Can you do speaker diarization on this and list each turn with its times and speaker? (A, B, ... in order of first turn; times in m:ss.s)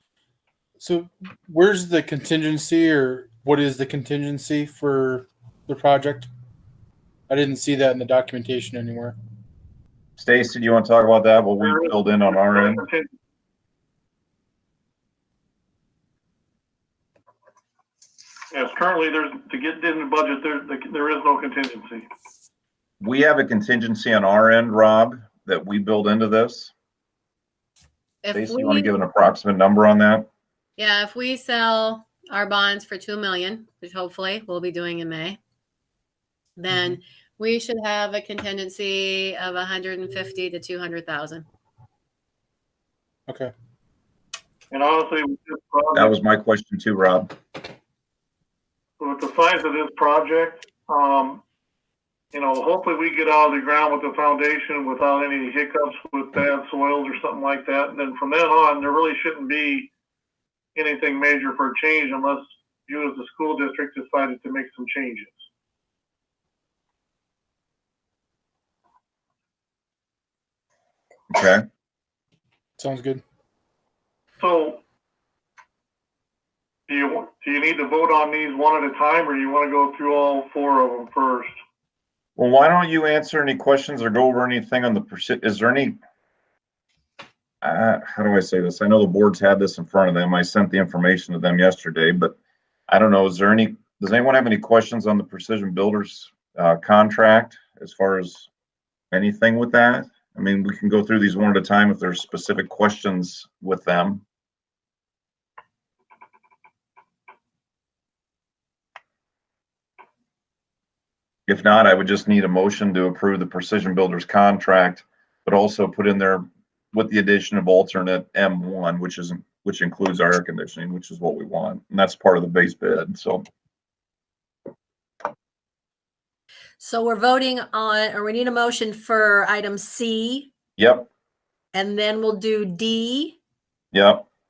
0:00.8-0:06.3 A
0:07.3-0:09.1 A
0:10.2-0:12.8 B
0:11.6-0:13.1 C
0:18.5-0:22.0 C
0:23.0-0:26.7 B
0:28.2-0:28.9 D
0:28.3-0:30.3 B
0:30.8-0:35.4 D
0:36.6-0:41.4 D
0:44.7-0:46.2 C
0:46.0-0:47.3 B
0:49.0-0:51.4 C
0:52.3-0:59.9 C
1:00.7-1:05.4 C
1:11.3-1:11.6 B
1:12.8-1:13.2 A
1:14.4-1:14.8 C
1:16.9-1:21.6 C
1:22.4-1:26.0 B
1:27.6-1:32.4 B
1:32.9-1:38.5 B
1:39.1-1:44.2 B
1:51.5-2:03.4 B
2:06.8-2:10.5 E
2:10.8-2:11.1 B
2:11.7-2:13.4 E
2:13.9-2:14.3 B